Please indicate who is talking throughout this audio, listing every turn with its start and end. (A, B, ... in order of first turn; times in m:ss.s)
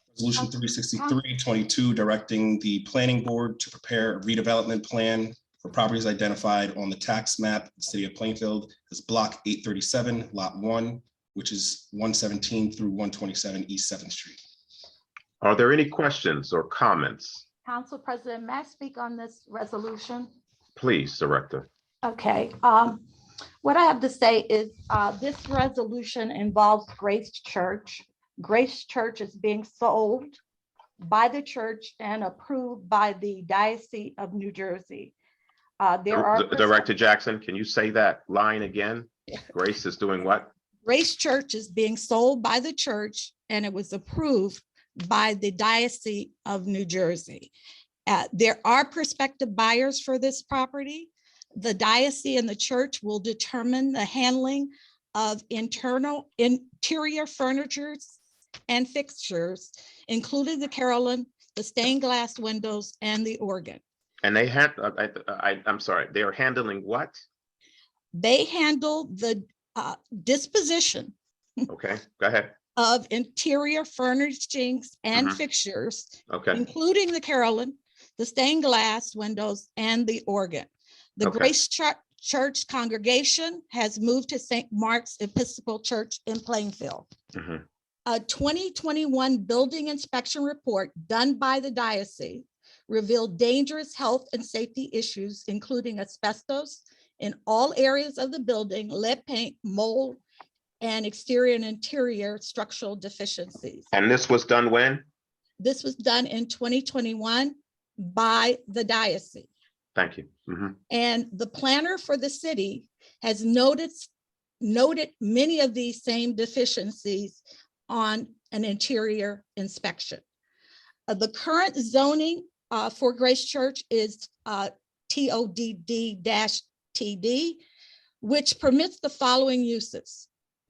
0:00.1-0:14.4 A
0:15.4-0:17.4 B
0:17.7-0:20.3 C
0:20.8-0:21.7 B
0:22.0-0:23.0 C
0:23.6-0:30.4 C
0:31.0-0:35.2 C
0:35.8-0:36.7 C
0:36.1-0:40.5 B
0:40.9-0:47.5 C
0:48.1-0:58.2 C
0:58.7-1:03.8 C
1:04.2-1:07.2 B
1:08.1-1:11.2 C
1:11.7-1:12.5 B
1:12.8-1:20.7 C
1:16.3-1:16.6 B
1:21.2-1:27.1 C
1:21.2-1:21.5 B
1:27.4-1:27.6 B
1:28.1-1:40.2 C
1:40.8-1:43.9 C
1:43.9-1:45.0 B
1:45.6-1:49.5 C
1:50.0-1:50.8 B
1:50.9-1:54.1 C
1:54.6-2:00.2 C
2:01.1-2:07.6 C
2:08.2-2:10.3 C